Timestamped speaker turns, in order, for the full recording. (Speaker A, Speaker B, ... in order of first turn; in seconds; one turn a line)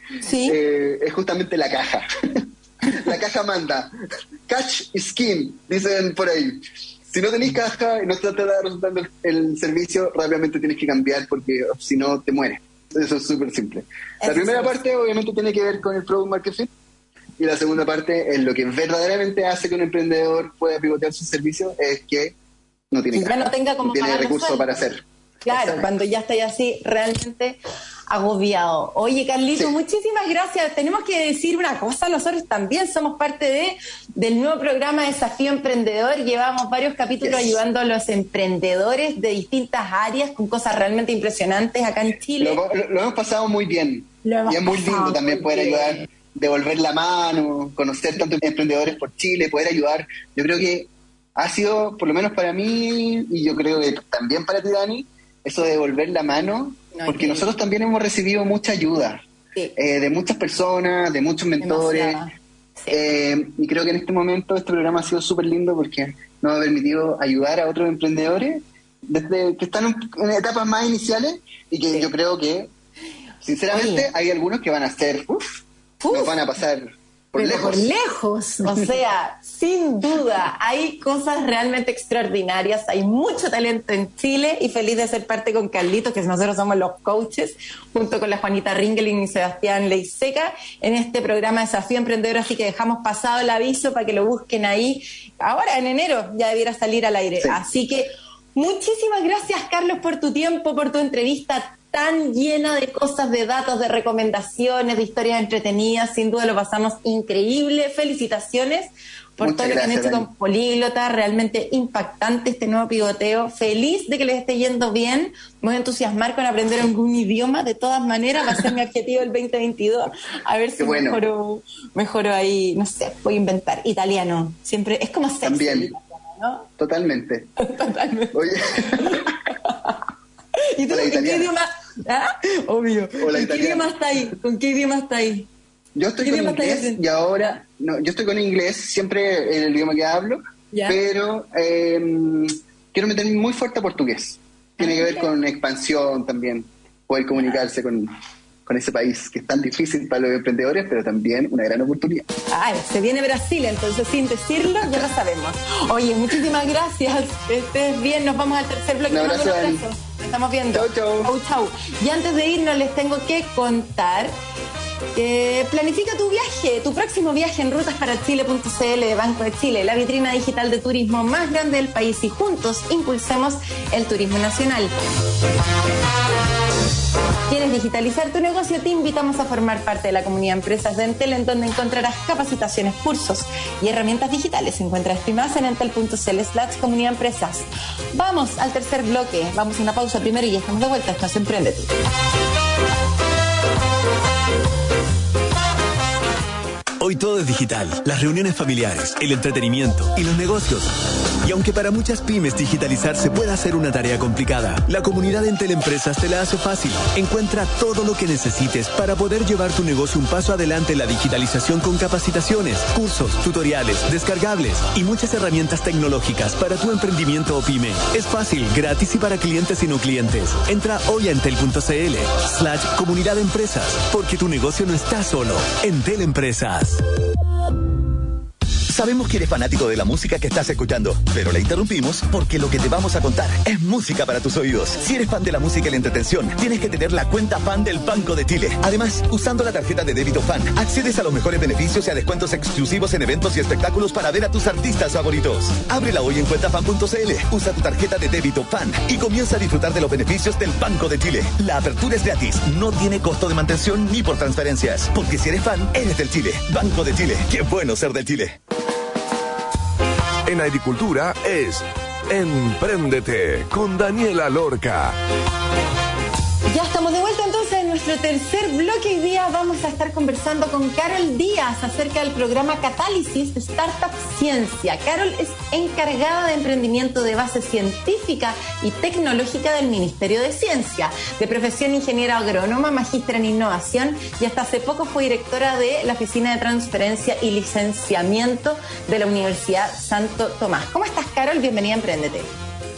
Speaker A: 0.2-0.6
Speaker B: 0.4-3.9
Speaker B: 4.5-16.7
Speaker A: 14.2-14.8
Speaker B: 17.4-22.3
Speaker B: 22.9-25.9
Speaker A: 23.1-24.8
Speaker A: 25.4-42.6
Speaker B: 37.2-37.6
Speaker B: 42.4-59.2
Speaker A: 44.2-46.1
Speaker A: 56.9-57.5
Speaker B: 59.8-62.2
Speaker A: 61.6-63.0
Speaker B: 62.9-72.7
Speaker B: 73.4-75.5
Speaker A: 73.7-74.1
Speaker A: 76.0-76.3
Speaker B: 76.1-77.9
Speaker A: 77.4-126.7
Speaker B: 109.4-110.3
Speaker B: 120.8-121.2
Speaker B: 125.4-125.9
Speaker B: 126.8-127.5
Speaker A: 127.6-128.4
Speaker B: 128.3-129.3
Speaker A: 128.9-130.0
Speaker A: 130.7-135.5
Speaker B: 130.9-131.5
Speaker B: 133.2-133.9
Speaker B: 135.9-148.2
Speaker A: 136.2-137.0
Speaker A: 140.7-141.0
Speaker A: 144.8-145.3
Speaker B: 148.7-152.2
Speaker A: 152.5-164.3
Speaker B: 159.1-159.8
Speaker B: 160.7-161.3
Speaker A: 165.2-174.9
Speaker A: 177.5-191.9
Speaker C: 197.0-200.9
Speaker C: 201.4-227.0
Speaker D: 228.9-258.6
Speaker E: 260.4-265.2
Speaker A: 266.7-292.5